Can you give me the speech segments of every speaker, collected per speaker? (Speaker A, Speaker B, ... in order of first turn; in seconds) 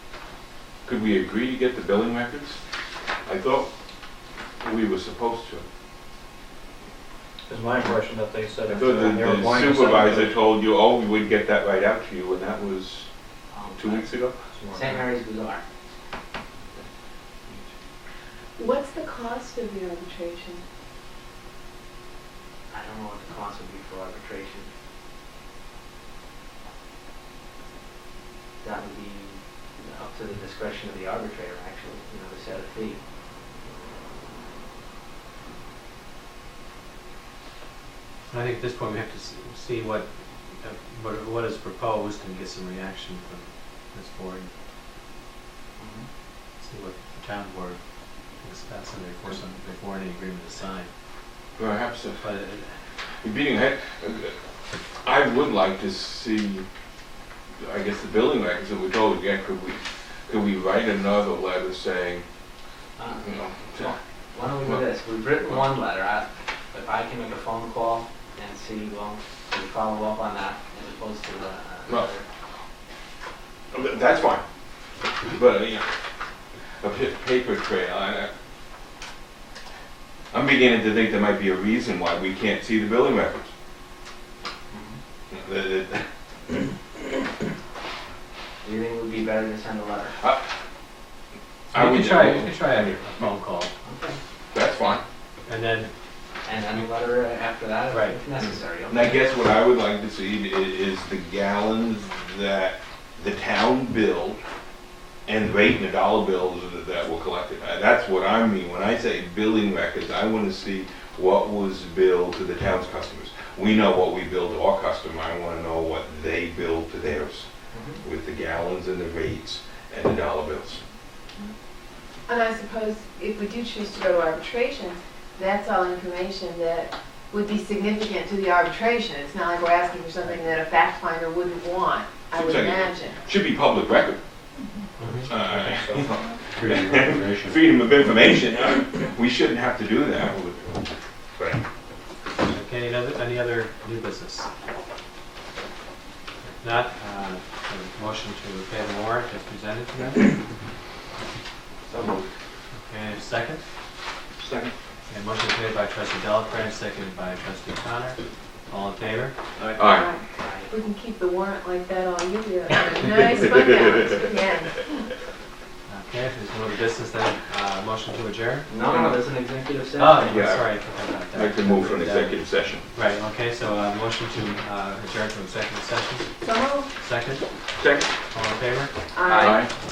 Speaker A: 0.8-2.6, 3.2-3.7, 4.6-5.7, 8.7-13.1, 13.8-14.3, 51.6-52.2, 53.2-54.3, 55.0-56.6, 57.6-62.2, 63.2-64.0, 73.7-74.4, 75.2-75.9, 76.8-78.3, 80.3-83.5, 85.3-86.0, 91.7-93.0, 94.5-95.0, 98.9-104.4, 105.2-117.5, 118.0-120.8, 132.3-134.2, 135.3-141.6, 151.9-152.2, 154.4-154.7, 159.7-160.1, 168.9-169.2, 170.2-170.7, 171.2-172.8, 177.8-178.1, 179.3-179.7
Speaker B: 7.5-10.3, 14.5-14.9, 135.2-137.5
Speaker C: 13.5-14.1, 14.7-15.6, 22.7-24.7, 28.6-33.0, 45.8-46.0, 63.0-72.2, 84.7-85.0, 88.6-90.2, 93.8-94.2, 96.4-99.2, 117.7-118.0, 160.4-160.7, 168.7-170.4, 179.2-179.6
Speaker D: 18.6-20.6, 122.3-133.2, 159.8-164.9, 176.4-176.9, 179.1-179.7
Speaker E: 38.3-44.5, 46.6-47.8, 48.4-50.9, 52.2-52.7, 91.7-93.7, 95.5-95.9, 97.9-98.2, 135.0-135.3, 142.4-144.5, 146.6-150.4, 152.7-153.6, 155.1-159.3, 165.9-168.7, 169.9-176.3, 177.0-177.4, 178.3-178.9